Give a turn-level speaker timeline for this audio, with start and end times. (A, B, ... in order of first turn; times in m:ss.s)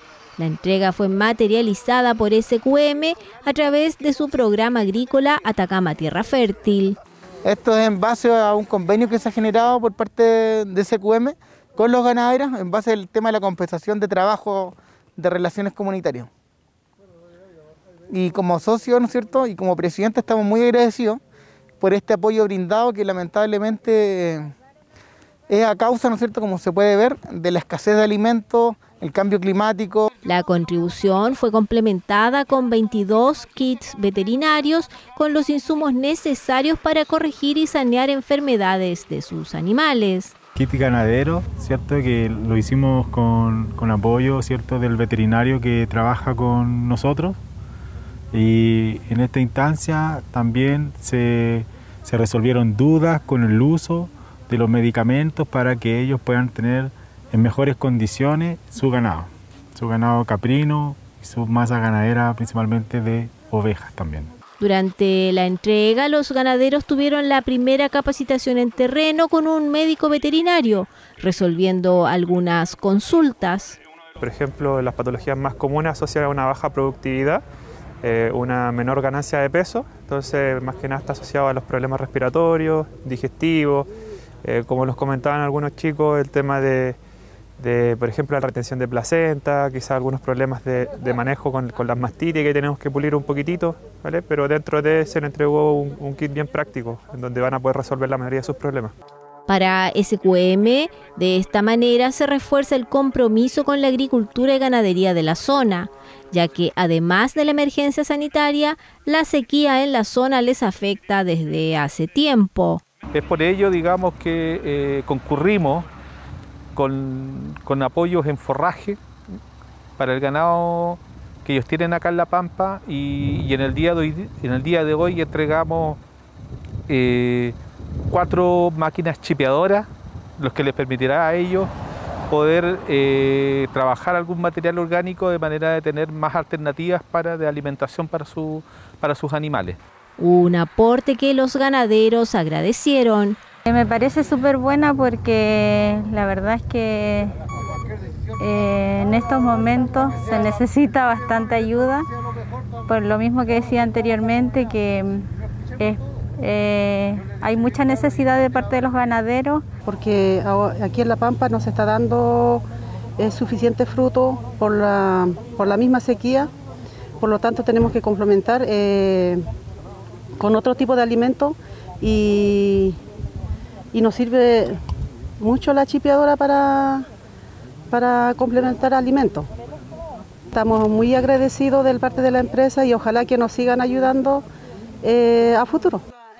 0:00.4-0:07.0 A
0:07.4-0:16.3 B
0:18.1-0:21.2 B
0:21.8-0:24.5 B
0:25.5-0:30.1 B
0:30.2-0:40.3 A
0:40.5-0:47.4 C
0:48.3-1:04.3 C
1:04.6-1:13.8 A
1:14.2-1:17.4 D
1:18.0-1:23.9 D
1:24.4-1:27.0 D
1:27.6-1:38.9 D
1:39.5-1:52.8 A
1:53.1-1:55.9 E
1:56.7-1:59.0 E
2:00.0-2:06.0 E
2:06.9-2:07.6 E
2:08.1-2:11.7 E
2:12.3-2:19.8 E
2:20.2-2:23.4 A
2:23.7-2:27.4 F
2:28.4-2:32.1 F
2:32.8-2:39.6 F
2:39.8-2:42.6 G
2:43.2-2:46.5 G
2:47.2-2:49.4 G
2:50.4-2:53.0 G
2:53.9-2:54.8 G
2:55.4-2:57.1 G
2:57.9-2:59.5 G
3:00.5-3:04.4 G
3:05.0-3:06.0 G